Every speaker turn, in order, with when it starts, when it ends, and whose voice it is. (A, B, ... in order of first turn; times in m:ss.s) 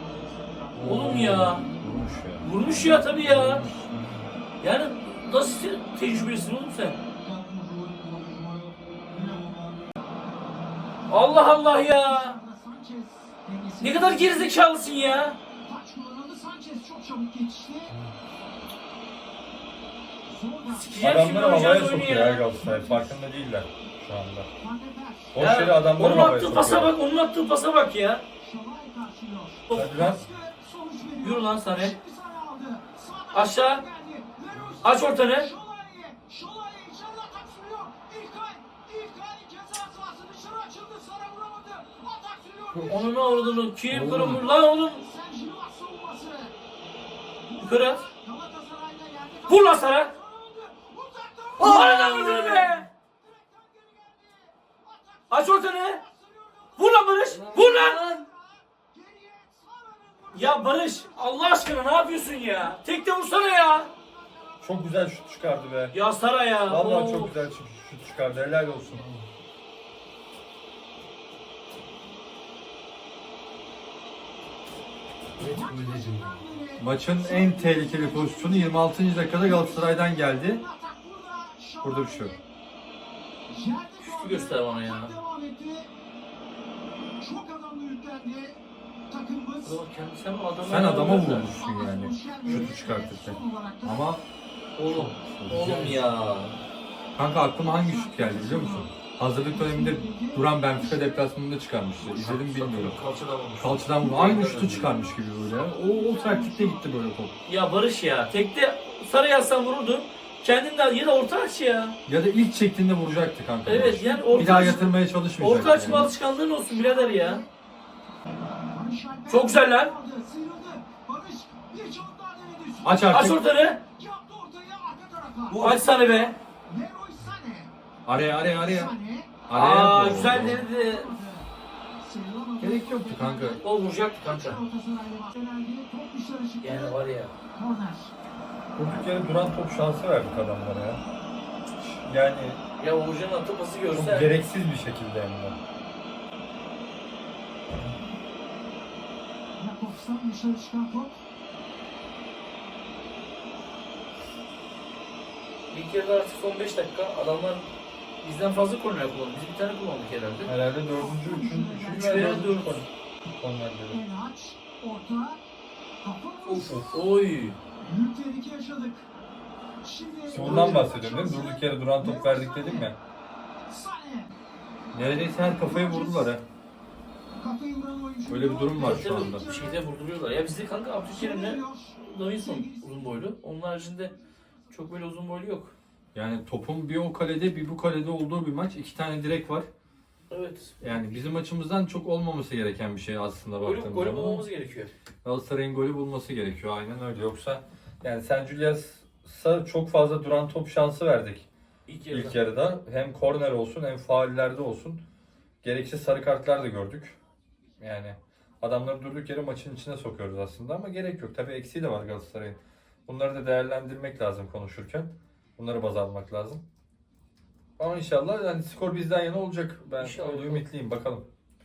0:00.7-0:04.2 A
0:00.8-0:01.7 B
0:02.4-0:03.6 B
0:04.6-0:07.0 B
0:07.2-0:09.8 C
0:11.1-0:12.4 B
0:11.5-0:14.5 C
0:13.8-0:15.4 B
0:15.6-0:18.0 C
0:20.3-0:21.1 C
0:20.7-0:22.4 B
0:21.0-0:24.5 A
0:22.5-0:23.2 C
0:24.6-0:25.4 C
0:25.3-0:26.9 A
0:25.4-0:28.2 B
0:28.4-0:43.6 C
0:29.7-0:30.1 B
0:29.7-0:30.2 A
0:31.2-0:32.0 B
0:33.3-0:33.8 B
0:34.8-0:35.5 B
0:42.8-0:45.0 B
0:43.9-0:44.4 A
0:44.2-0:46.5 C
0:47.4-1:05.5 C
0:47.6-0:48.1 B
0:49.5-0:50.1 B
0:51.6-0:52.9 B
0:51.6-0:52.7 A
0:55.3-0:56.0 B
0:56.8-0:58.2 B
0:57.3-0:58.2 A
1:00.3-1:03.9 B
1:04.6-1:05.9 A
1:05.9-1:07.3 B
1:06.7-1:09.2 A
1:08.7-1:09.0 C
1:15.4-1:18.9 C
1:15.7-1:16.0 B
1:16.8-1:20.6 A
1:19.4-1:22.4 C
1:21.8-1:22.3 A
1:23.5-1:25.9 C
1:24.0-1:25.1 B
1:27.2-1:28.6 C
1:29.1-1:29.8 C
1:29.6-1:31.5 B
1:30.6-1:34.2 A
1:31.4-1:34.1 C
1:34.8-1:36.6 B
1:34.9-1:36.1 A
1:37.2-1:43.0 A
1:37.6-1:41.2 C
1:42.0-1:44.9 B
1:43.6-1:47.3 A
1:44.1-1:46.9 C
1:47.4-1:52.0 B
1:52.1-1:56.1 A
1:53.6-1:57.4 B
1:53.7-1:54.9 C
1:56.6-1:57.5 C
1:58.7-2:05.8 C
1:59.3-2:00.0 B
2:02.8-2:03.4 A
2:03.1-2:03.8 B
2:05.5-2:05.8 A
2:05.5-2:06.4 B
2:06.7-2:07.7 C
2:08.0-2:08.9 A
2:08.4-2:09.4 C
2:09.5-2:10.6 A
2:09.5-2:11.1 B
2:10.1-2:17.0 C
2:12.6-2:13.6 A
2:13.6-2:14.6 B
2:16.6-2:17.3 B
2:17.5-2:18.1 C
2:18.8-2:21.0 A
2:21.8-2:22.6 A
2:22.8-2:24.3 B
2:23.9-2:25.6 A
2:29.6-2:31.2 C
2:35.7-2:37.7 B
2:38.2-2:40.5 B
2:40.4-2:42.9 A
2:40.9-2:42.6 C
2:41.9-2:42.8 B
2:43.4-2:44.0 A
2:43.9-2:45.4 C
2:46.0-2:47.0 C
2:46.5-2:46.9 A
2:46.9-2:47.6 B
2:47.8-2:49.0 C
2:49.8-2:52.9 C
2:50.3-2:53.0 A
2:53.7-2:54.3 C
2:54.9-2:56.4 A
2:55.4-2:56.3 C
2:57.4-2:59.8 C
2:58.3-2:59.4 A
2:58.8-3:04.1 B
3:01.1-3:03.1 C
3:04.7-3:05.7 B
3:06.1-3:09.6 A
3:10.3-3:10.8 B
3:10.8-3:14.4 A
3:13.6-3:14.9 B
3:15.2-3:21.5 A
3:21.9-3:22.4 B
3:22.1-3:25.0 A
3:25.6-3:27.2 A
3:27.8-3:36.6 A
3:37.8-3:41.3 A
3:40.0-3:40.6 B